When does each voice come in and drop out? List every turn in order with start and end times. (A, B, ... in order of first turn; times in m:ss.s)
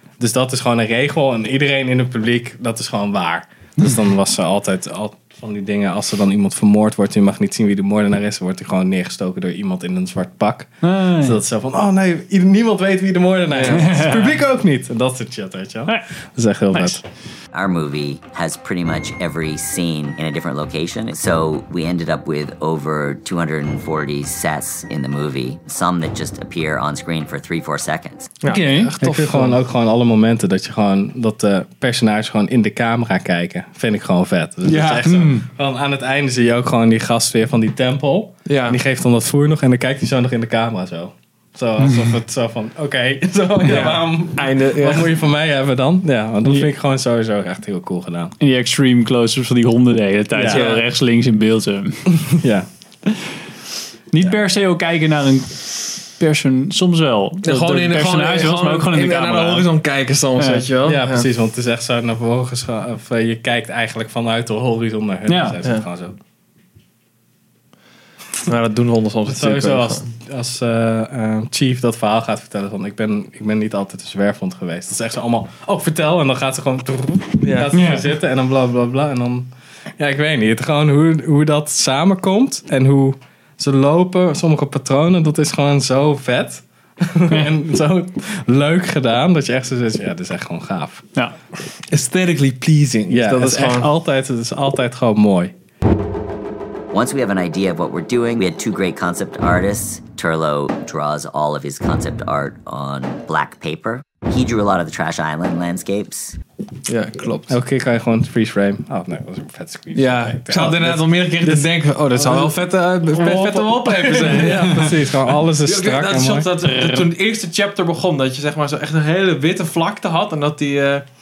0:00.2-0:17.0 A
0:10.8-0:11.4 B
0:13.5-0:13.8 C
0:13.7-0:14.3 B
0:17.5-0:28.3 D
0:28.4-0:29.6 C
0:28.4-0:28.9 B
0:29.0-0:48.3 A
0:34.6-0:35.1 C
0:35.1-0:35.4 B
0:38.4-0:38.8 C
0:43.6-0:45.1 C
0:48.4-0:52.1 B
0:50.3-0:50.7 A
0:50.5-0:50.8 C
0:52.1-0:52.7 A
0:54.1-0:59.7 B
0:57.4-1:01.3 C
1:00.4-1:00.6 B
1:00.8-1:06.2 A
1:05.3-1:05.6 B
1:08.4-1:10.1 C
1:09.2-1:31.1 A
1:17.4-1:17.7 C
1:17.7-1:18.0 B
1:31.9-1:33.9 C
1:33.1-1:35.5 A
1:36.9-1:46.4 D
1:46.8-1:47.6 C
1:47.5-1:56.5 A
1:49.9-2:01.0 C
1:56.6-1:57.0 B